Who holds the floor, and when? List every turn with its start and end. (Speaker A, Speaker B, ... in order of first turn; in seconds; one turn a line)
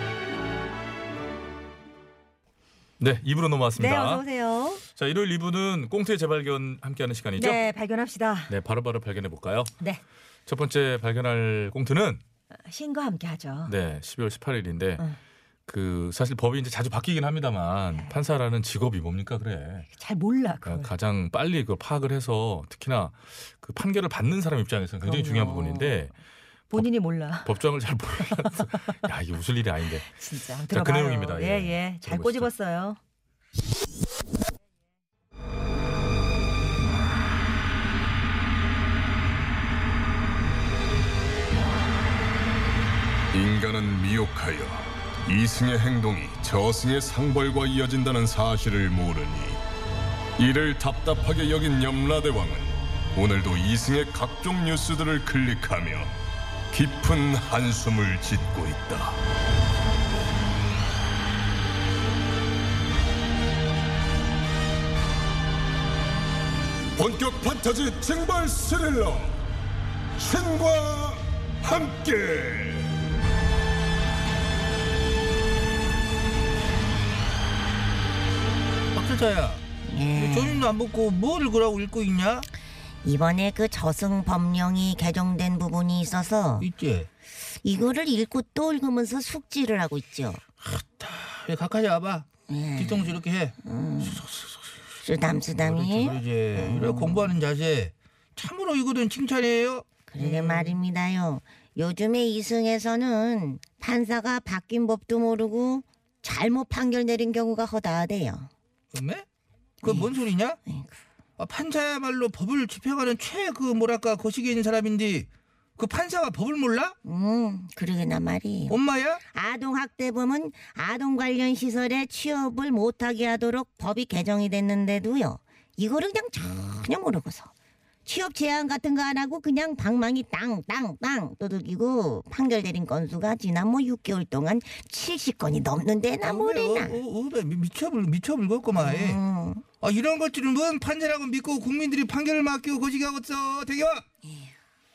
Speaker A: 3.0-4.2
Speaker B: 3.8-4.8
Speaker A: 5.0-7.6
Speaker B: 7.4-8.5
Speaker A: 8.5-9.7
Speaker A: 10.5-12.2
Speaker B: 12.7-13.7
Speaker A: 13.7-15.0
Speaker A: 15.7-19.9
Speaker B: 19.9-20.9
Speaker A: 20.7-26.1
Speaker B: 25.0-26.0
Speaker B: 26.7-27.5
Speaker A: 27.4-30.1
Speaker B: 30.1-33.0
Speaker A: 30.7-32.5
Speaker C: 43.3-49.6
Speaker C: 50.4-56.1
Speaker C: 56.7-59.2
Speaker C: 67.0-69.4
Speaker C: 70.2-72.9
Speaker D: 78.9-82.5
Speaker E: 79.9-80.6
Speaker E: 83.0-86.7
Speaker D: 86.6-87.1
Speaker E: 87.6-90.4
Speaker D: 90.6-94.7
Speaker E: 92.5-93.1
Speaker E: 93.6-94.2
Speaker E: 95.0-97.3
Speaker D: 95.6-100.5
Speaker E: 100.1-108.5
Speaker D: 108.9-109.3
Speaker D: 109.8-110.6
Speaker E: 109.8-110.1
Speaker E: 110.7-111.0
Speaker D: 111.4-117.0
Speaker E: 117.0-118.8
Speaker D: 118.7-119.2
Speaker E: 119.3-127.5
Speaker E: 128.1-137.0
Speaker D: 136.2-139.2
Speaker E: 138.8-139.6
Speaker D: 139.8-144.1
Speaker E: 144.2-144.6